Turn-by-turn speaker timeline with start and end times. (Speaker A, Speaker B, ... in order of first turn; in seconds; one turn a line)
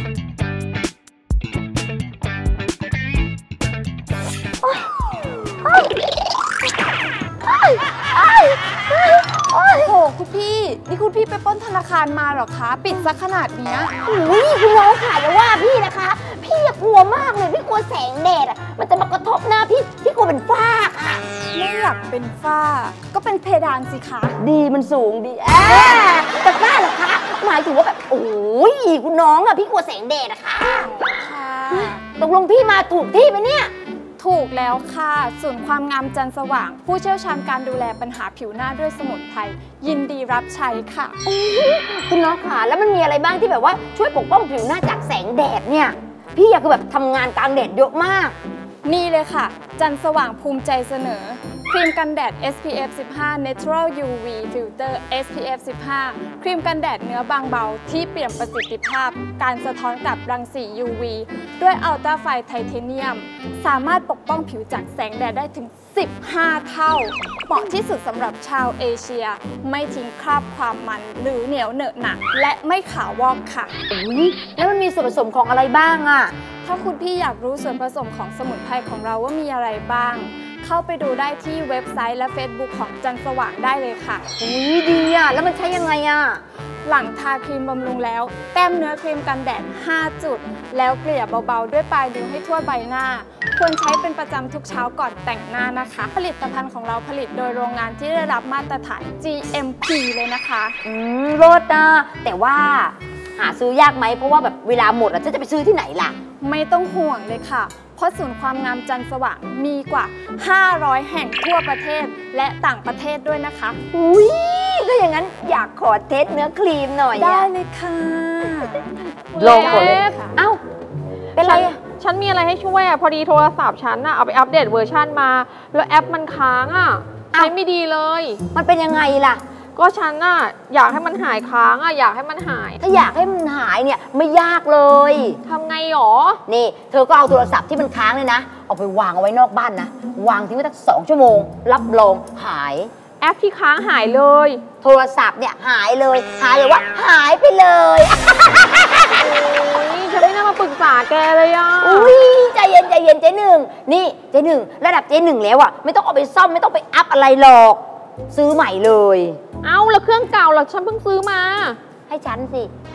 Speaker A: 4.6-4.9
Speaker A: 5.5-5.9
Speaker A: 7.4-10.0
Speaker B: 9.8-13.9
Speaker A: 14.0-21.2
Speaker B: 21.5-24.4
Speaker A: 24.4-30.9
Speaker B: 30.8-32.0
Speaker A: 31.7-33.7
Speaker B: 34.2-41.1
Speaker A: 41.2-48.3
Speaker B: 48.8-73.7
Speaker A: 73.9-76.3
Speaker B: 76.6-84.3
Speaker A: 84.4-86.4
Speaker B: 86.8-100.7
Speaker A: 100.8-106.1
Speaker B: 106.4-113.8
Speaker A: 113.9-117.5
Speaker B: 117.1-120.4
Speaker A: 119.3-120.6
Speaker C: 119.3-120.2
Speaker A: 121.3-121.8
Speaker C: 121.4-128.4
Speaker A: 128.5-129.4
Speaker C: 129.8-132.8
Speaker A: 132.8-135.4
Speaker C: 135.4-136.4
Speaker A: 136.5-142.9
Speaker C: 143.2-144.6
Speaker A: 144.8-149.2
Speaker C: 149.1-152.2
Speaker A: 151.8-159.4
Speaker C: 159.6-161.8
Speaker A: 162.1-162.7